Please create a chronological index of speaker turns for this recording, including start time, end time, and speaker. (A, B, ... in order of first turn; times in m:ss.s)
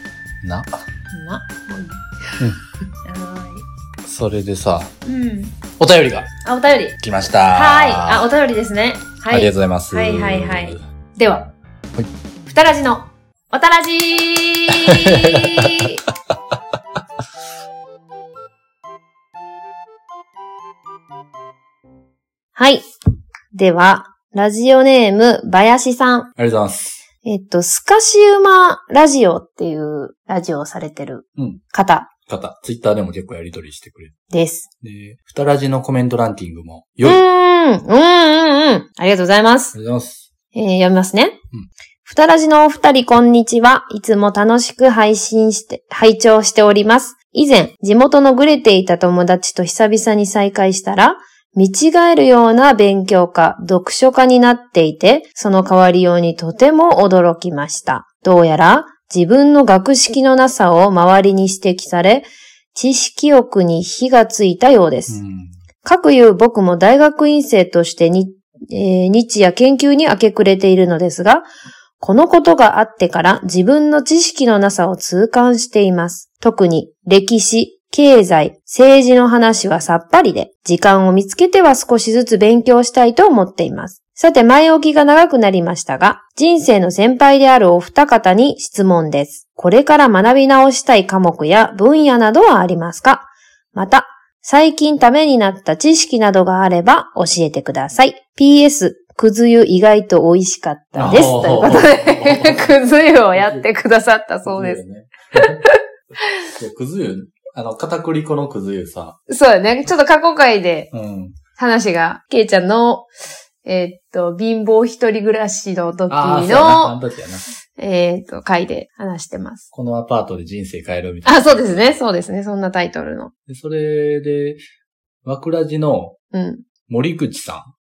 0:00.4-0:00.8 A
0:01.1-0:02.0 B
0:03.0-0:03.6 B
0:04.0-0:04.9 A
0:05.0-0:05.6 B
0:05.8-0:06.3 A
0:06.4-0:07.0 B
0:07.0-0:08.3 A
0:07.5-0:11.5 B
0:09.3-0:10.8 A
0:12.4-0:16.0 B
0:14.8-0:15.9 A
0:22.5-0:22.8 B
0:23.5-0:26.3 B
0:26.4-0:27.0 A
0:27.2-0:32.1 B
0:31.4-0:31.6 A
0:32.3-0:34.1 A
0:34.3-0:34.7 B
0:34.8-0:37.2 A
0:37.0-0:39.7 B
0:39.7-0:40.3 A
0:40.5-0:41.4 B
0:42.0-1:05.2 B
1:05.1-1:05.6 A
1:05.8-1:11.5 B
1:12.0-1:44.8 B
1:40.9-1:42.8 A
1:43.3-1:43.7 A
1:44.4-1:45.6 A
1:45.3-1:45.8 B
1:46.5-1:49.2 A
1:49.3-1:50.9 B
1:50.9-1:51.4 A
1:51.6-1:53.1 B
1:53.6-1:57.0 B
1:56.1-1:57.5 A
1:57.7-1:59.6 B
1:59.7-2:02.0 A
2:01.2-2:03.3 B
2:03.5-2:04.6 A
2:05.2-2:06.2 A
2:06.3-2:06.6 B
2:06.9-2:07.7 A